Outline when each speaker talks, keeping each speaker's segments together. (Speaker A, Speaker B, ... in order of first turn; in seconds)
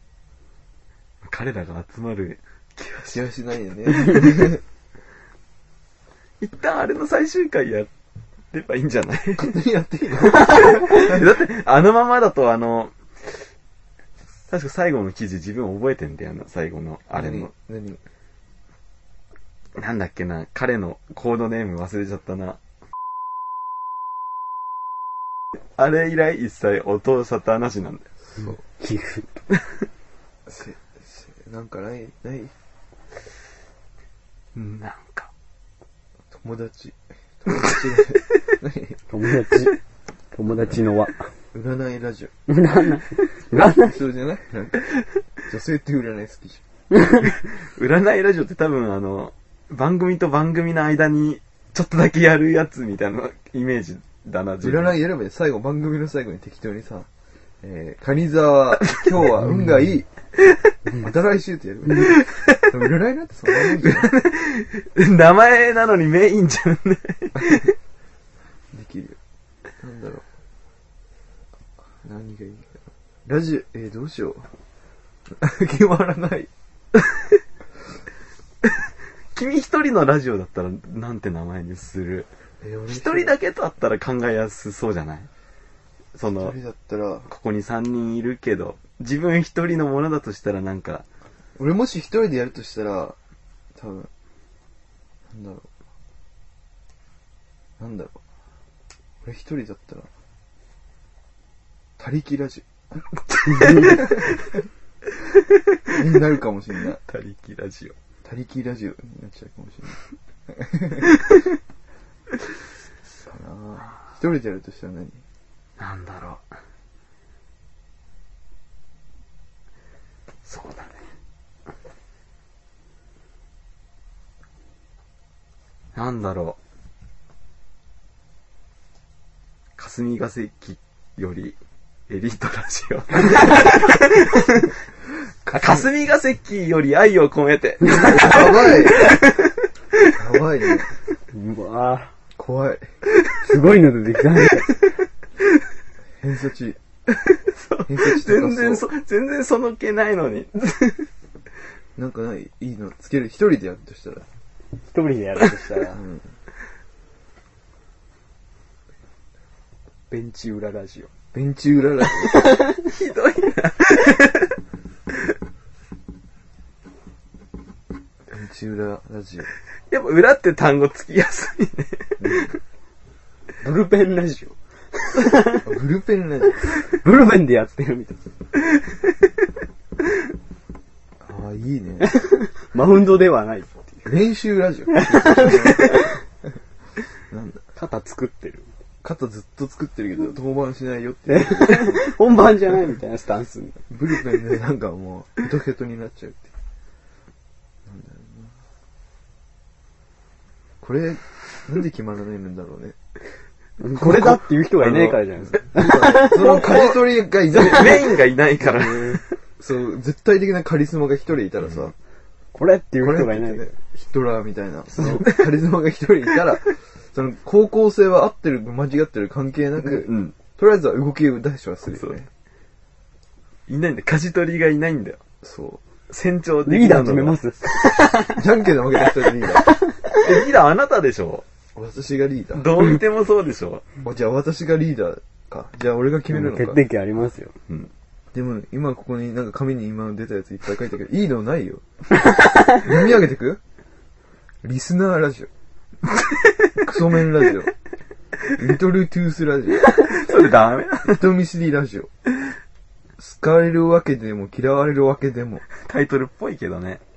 Speaker A: 1.2-3.3, 3.9-4.5, 6.4-7.9, 8.5-9.6, 10.2-13.4, 14.5-17.5, 19.8-22.6, 25.8-28.1, 34.5-35.3, 47.2-55.0, 62.0-62.8, 63.5-67.8, 79.3-82.3, 82.9-85.3, 86.2-86.6, 87.3-91.0, 103.3-104.5, 105.4-105.9, 107.1-107.9, 115.8-116.5, 120.5-121.0, 126.0-126.6, 129.8-131.6, 132.1-134.8, 135.5-140.1, 147.1-151.1, 162.8-164.6, 169.9-172.5, 204.0-205.2, 205.8-209.3, 215.1-215.5, 219.8-220.4, 221.9-222.2, 223.7-225.2, 226.1-227.4, 230.1-231.4, 232.5-233.9, 246.1-246.7, 249.9-251.3, 255.7-257.0
Speaker B: 3.1-4.6, 9.4-11.2, 17.1-18.0, 28.3-28.6, 30.5-32.5, 36.3-39.0, 41.5-42.3, 43.8-44.9, 45.5-46.6, 54.6-57.1, 57.6-60.1, 60.9-64.1, 68.7-69.2, 69.8-70.2, 72.0-74.5, 75.3-76.5, 82.6-83.3, 86.3-87.3, 91.6-93.2, 93.8-94.1, 95.3-95.7, 97.8-98.2, 99.2-100.1, 102.0-102.7, 103.8-104.2, 105.9-107.0, 108.2-111.1, 113.3-115.2, 135.5-135.9, 138.0-139.2, 140.2-140.9, 142.4-142.9, 146.2-146.8, 147.9-148.9, 152.0-154.2, 155.9-156.3, 161.3-162.6, 168.3-169.5, 172.2-172.5, 175.6-176.7, 181.2-182.1, 184.1-186.1, 187.3-187.6, 189.0-192.2, 193.9-196.5, 197.9-198.6, 200.8-203.0, 205.8-208.2, 209.6-211.9, 213.0-222.3, 225.4-225.8, 228.3-229.7, 231.8-232.7, 234.0-236.8, 238.3-241.8, 242.7-243.6, 244.6-245.5, 246.8-247.7, 248.6-249.9, 251.0-252.1, 253.2-255.7
Speaker C: 28.4-29.4, 39.1-39.8, 40.3-41.3, 42.5-44.0, 103.5-104.0, 141.3-142.1, 143.4-144.7, 154.9-156.0, 160.1-161.1, 173.6-175.7, 176.9-178.2, 182.0-184.1, 184.9-186.2, 187.8-188.7, 191.3-193.8, 203.8-206.7, 208.6-209.2, 212.5-213.7, 214.9-215.3, 226.7-228.4, 229.7-230.2, 236.3-237.5